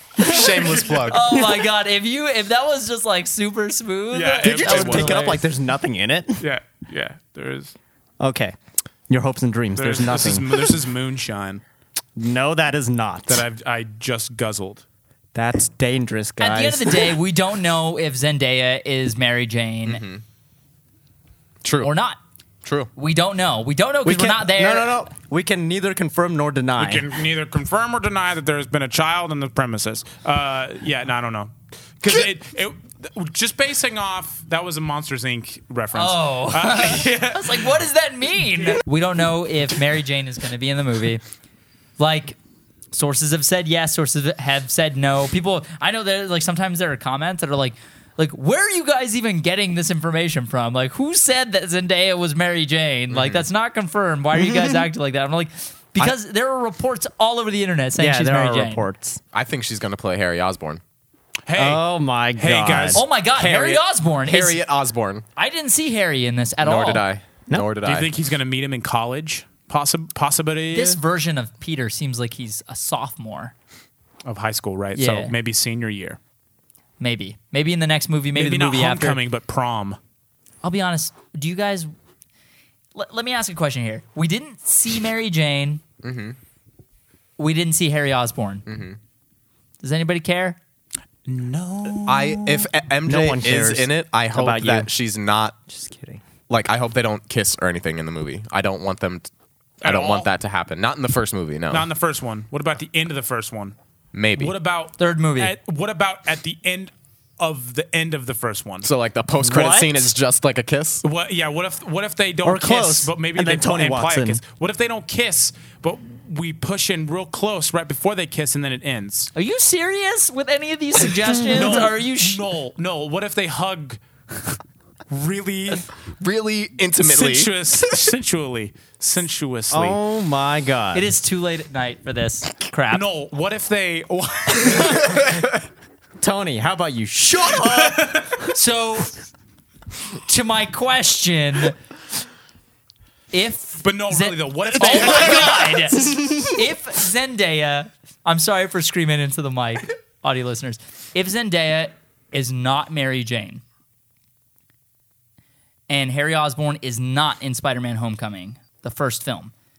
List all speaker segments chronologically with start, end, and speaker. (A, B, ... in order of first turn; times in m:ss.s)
0:00.2-0:01.2 A
0:00.2-0:05.4 B
0:01.3-0:01.6 C
0:04.1-0:05.4 D
0:04.4-0:06.4 C
0:06.4-0:07.7 D
0:08.2-0:08.5 C
0:09.1-0:10.8 C
0:09.8-0:11.6 D
0:12.2-0:13.4 C
0:13.3-0:14.8 D
0:15.3-0:17.2 C
0:16.4-0:20.0 B
0:19.8-0:20.2 A
0:21.6-0:21.9 A
0:21.8-0:22.2 B
0:22.6-0:22.9 A
0:23.0-0:25.0 B
0:24.0-0:27.1 C
0:26.8-0:37.7 D
0:35.9-0:41.2 B
0:42.0-0:42.4 B
0:42.9-0:58.8 B
0:53.1-0:53.4 A
0:54.3-0:54.9 C
0:58.0-0:59.2 C
0:59.3-1:00.8 A
1:01.5-1:01.8 D
1:01.5-1:03.0 C
1:02.4-1:03.0 D
1:02.9-1:04.6 B
1:03.4-1:05.2 A
1:05.4-1:07.0 B
1:06.6-1:08.1 A
1:07.8-1:11.0 D
1:10.7-1:13.5 B
1:14.2-1:16.2 D
1:15.0-1:15.3 B
1:17.0-1:19.2 B
1:18.3-1:20.0 D
1:20.6-1:21.9 B
1:22.9-1:25.8 B
1:26.0-1:26.4 A
1:27.4-1:28.6 B
1:28.7-1:29.0 A
1:29.8-1:30.6 B
1:31.2-1:32.7 D
1:32.0-1:35.6 A
1:33.0-1:34.9 C
1:35.7-1:36.2 C
1:36.5-1:39.3 A
1:39.8-1:40.3 D
1:39.8-1:41.9 A
1:41.7-1:43.8 D
1:44.1-1:44.5 A
1:44.4-1:48.9 D
1:45.0-1:45.6 B
1:48.8-1:51.0 A
1:49.4-1:50.1 C
1:51.0-1:59.3 D
1:52.4-1:54.4 C
1:59.3-2:02.4 B
2:01.3-2:04.0 D
2:01.4-2:01.8 C
2:05.1-2:05.9 D
2:06.2-2:07.9 A
2:07.0-2:10.0 D
2:09.7-2:11.1 C
2:10.9-2:13.0 B
2:12.9-2:15.2 D
2:15.0-2:15.5 A
2:16.2-2:18.4 C
2:17.5-2:18.4 D
2:18.5-2:19.1 B
2:20.2-2:21.8 B
2:23.3-2:33.6 B
2:23.8-2:25.9 D
2:26.0-2:26.5 C
2:35.9-2:39.5 B